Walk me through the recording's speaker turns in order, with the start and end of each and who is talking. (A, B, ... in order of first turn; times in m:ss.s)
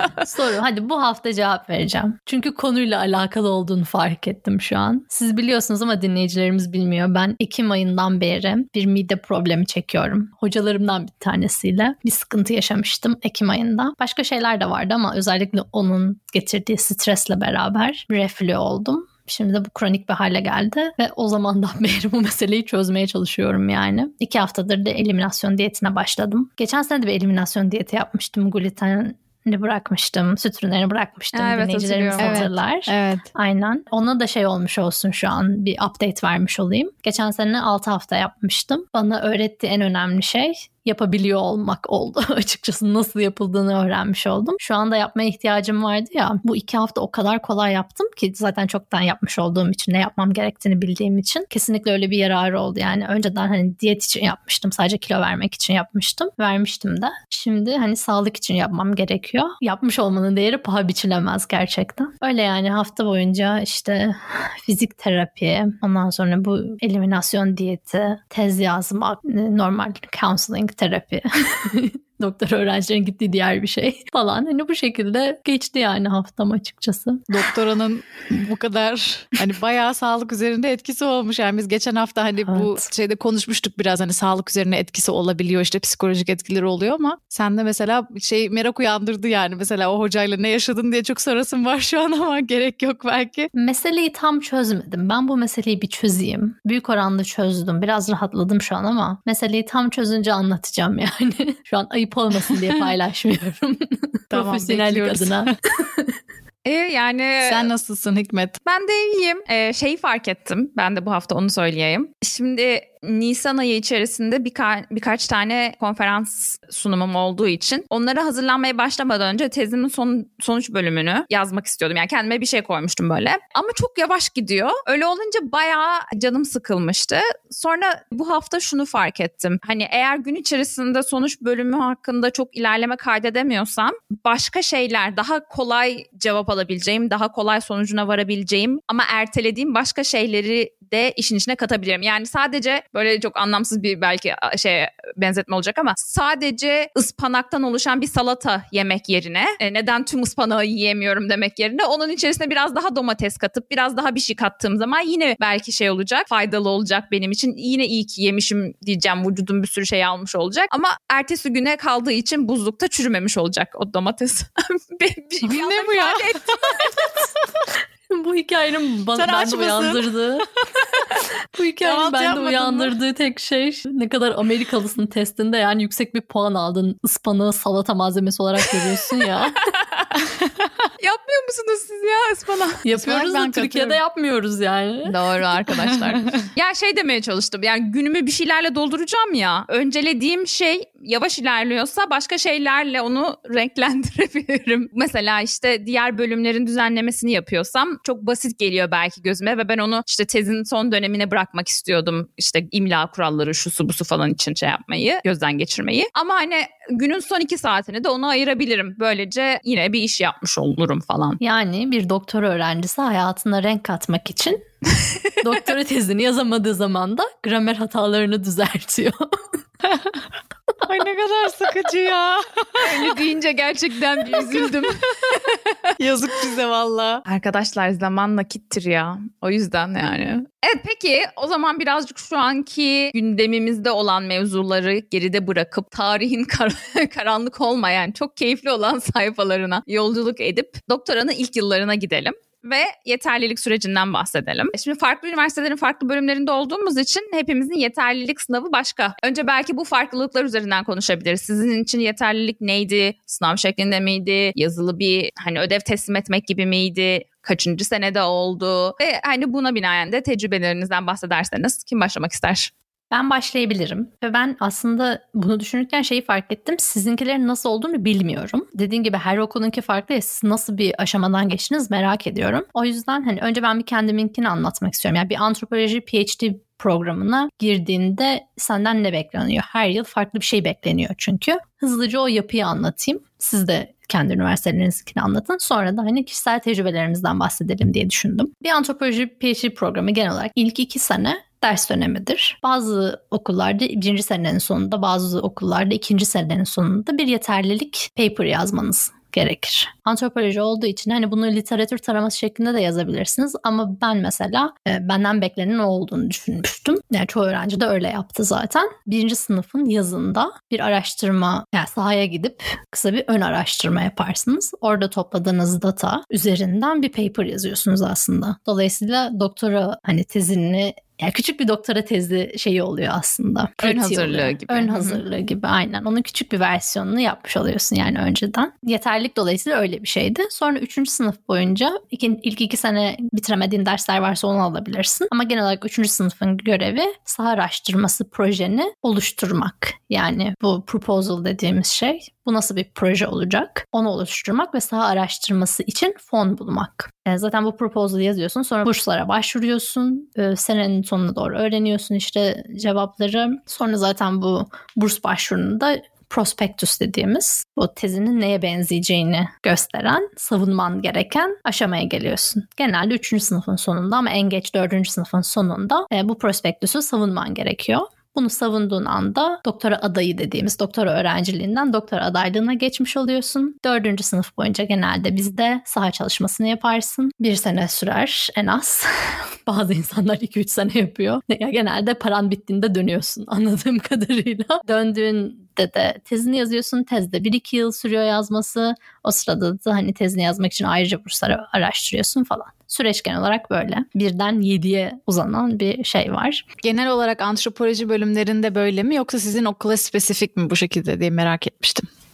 0:00.2-1:17.5 A
0:31.3-0:32.5 B
0:32.2-0:33.3 C
1:17.3-1:33.5 C
1:22.5-1:22.9 A
1:33.5-1:46.1 A
1:44.3-1:45.5 C
1:46.6-1:47.7 B
1:47.4-1:48.6 C
1:48.6-2:47.1 B
2:45.4-2:46.9 C
2:48.1-2:50.5 A
2:49.2-2:50.1 C
2:50.8-2:51.2 C
2:51.5-2:59.7 A
2:51.8-2:53.0 C
2:59.6-3:00.1 B
3:00.2-3:00.7 C
3:01.0-3:02.9 B
3:02.8-3:05.2 A
3:03.0-3:04.0 C
3:05.0-3:31.4 B
3:05.9-3:06.4 C
3:31.4-3:34.6 A
3:34.9-3:35.3 B
3:35.4-3:39.3 A
3:39.8-3:40.2 C
3:40.8-3:43.2 C
3:42.8-3:45.6 B
3:44.3-3:45.4 C
3:46.0-3:47.2 C
3:47.3-4:22.7 B
4:23.1-6:36.6 A
5:23.8-5:25.2 B
6:36.8-6:42.0 C